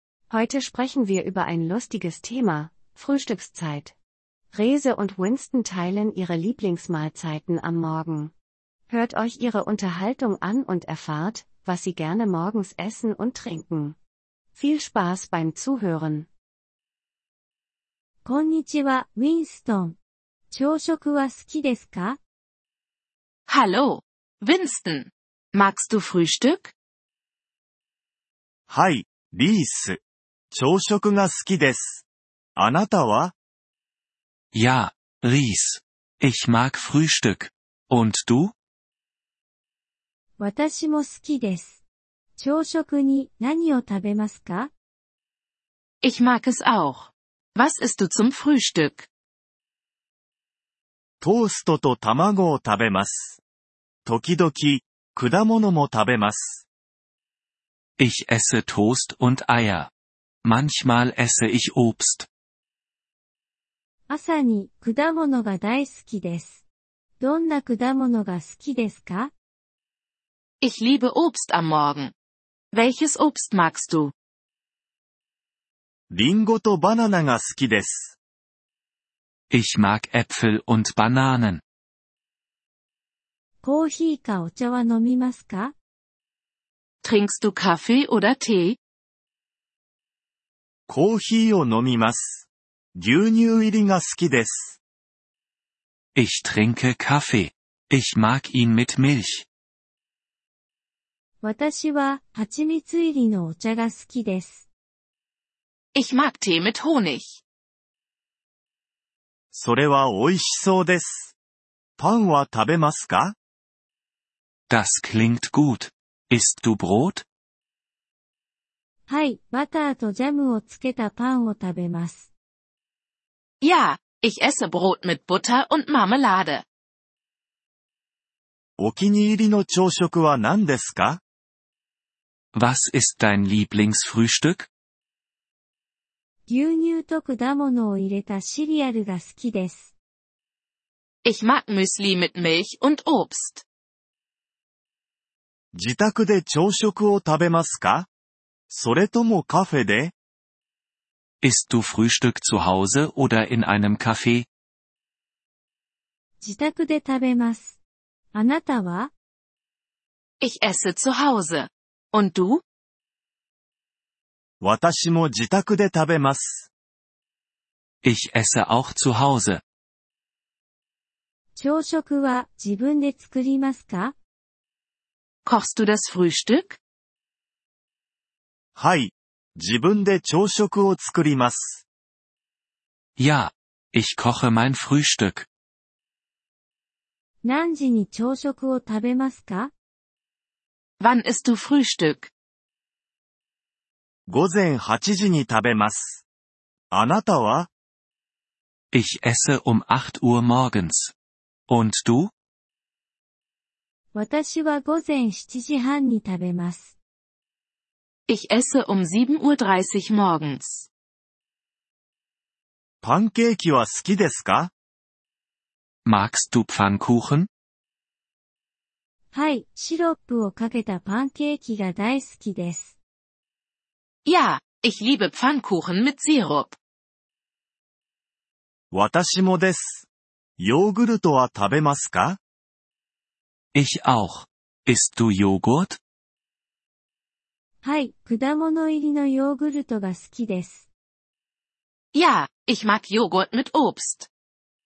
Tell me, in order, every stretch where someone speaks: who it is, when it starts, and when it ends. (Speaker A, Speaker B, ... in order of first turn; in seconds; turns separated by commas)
Speaker A: 0.3-3.9, Speaker A: 4.5-8.3, Speaker A: 8.9-13.9, Speaker A: 14.5-16.3, Speaker B: 18.2-20.0, Speaker B: 20.5-22.2, Speaker C: 23.5-26.7, Speaker D: 28.7-30.0, Speaker D: 30.5-32.0, Speaker D: 32.5-33.3, Speaker E: 34.5-38.5, Speaker B: 40.4-41.8, Speaker B: 42.4-44.7, Speaker C: 46.0-49.1, Speaker D: 51.2-53.4, Speaker D: 54.0-56.6, Speaker E: 58.0-59.9, Speaker E: 60.4-62.3, Speaker B: 64.1-66.6, Speaker B: 67.2-69.3, Speaker C: 70.6-72.1, Speaker C: 72.7-74.1, Speaker D: 76.1-78.2, Speaker E: 79.5-81.6, Speaker B: 83.6-85.7, Speaker C: 87.0-88.8, Speaker D: 90.9-94.8, Speaker E: 96.1-99.5, Speaker B: 101.4-104.7, Speaker C: 105.9-107.4, Speaker D: 109.5-111.3, Speaker D: 112.0-113.3, Speaker E: 114.7-117.2, Speaker B: 119.1-122.3, Speaker C: 123.6-126.6, Speaker D: 128.8-131.2, Speaker E: 132.5-134.7, Speaker B: 136.5-139.9, Speaker C: 141.2-143.6, Speaker D: 145.7-148.1, Speaker D: 148.7-150.1, Speaker E: 151.4-154.5, Speaker B: 156.4-157.8, Speaker B: 158.3-159.1, Speaker C: 160.4-162.6, Speaker D: 164.6-166.7, Speaker E: 168.0-169.6, Speaker B: 171.6-174.2, Speaker C: 175.4-176.8, Speaker D: 178.7-181.8, Speaker E: 183.2-185.5, Speaker B: 187.4-189.7, Speaker C: 191.0-192.3, Speaker D: 194.3-196.2, Speaker D: 196.9-197.7, Speaker E: 198.9-201.1, Speaker E: 201.7-202.3, Speaker B: 204.1-206.9, Speaker C: 208.3-210.9, Speaker D: 213.0-214.7, Speaker E: 216.0-217.5, Speaker B: 219.3-222.9, Speaker C: 224.2-226.8, Speaker D: 228.9-230.1, Speaker D: 230.6-232.4, Speaker E: 233.7-236.0, Speaker B: 237.8-240.8, Speaker C: 242.1-244.3